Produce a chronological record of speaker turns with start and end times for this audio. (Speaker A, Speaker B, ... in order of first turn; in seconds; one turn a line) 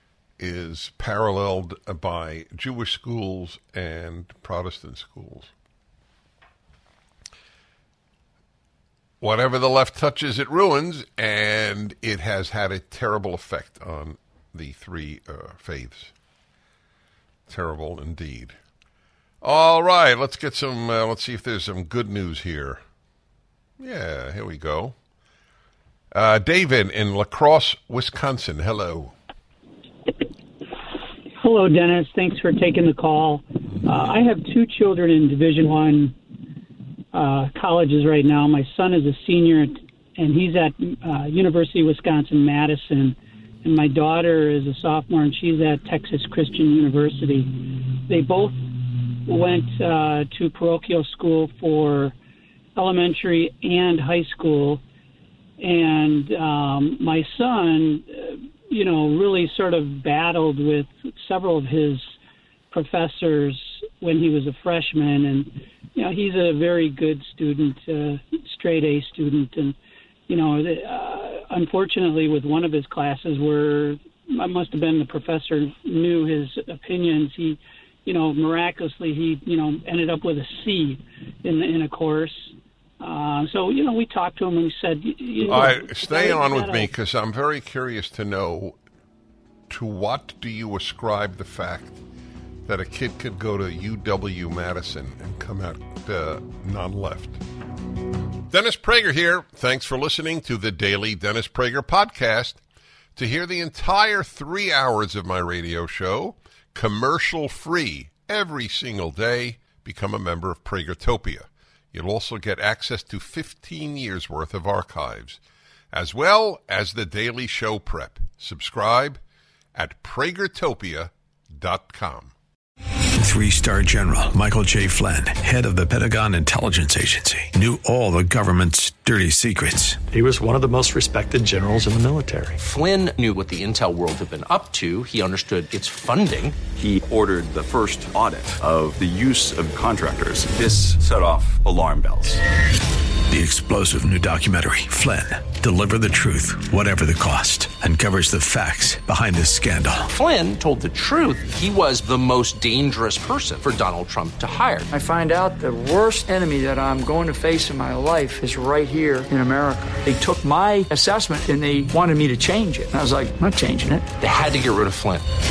Speaker A: 0.4-5.5
Speaker A: 9.2-16.1
Speaker A: 17.5-18.6
Speaker A: 19.4-22.8
Speaker A: 23.8-24.9
Speaker A: 26.1-29.1
Speaker B: 31.4-36.2
Speaker B: 37.1-48.6
Speaker B: 49.3-52.1
Speaker B: 52.8-54.8
Speaker B: 55.6-62.1
Speaker B: 62.7-69.8
Speaker B: 70.3-86.9
Speaker A: 85.5-88.8
Speaker A: 89.7-92.0
Speaker A: 92.7-97.4
Speaker A: 98.5-102.6
Speaker A: 103.2-115.4
Speaker A: 115.9-119.2
Speaker A: 119.8-122.3
Speaker C: 123.2-130.0
Speaker D: 130.1-132.6
Speaker E: 132.6-136.6
Speaker F: 136.7-142.4
Speaker C: 143.3-150.1
Speaker E: 150.1-154.9
Speaker G: 154.9-164.1
Speaker E: 164.2-165.3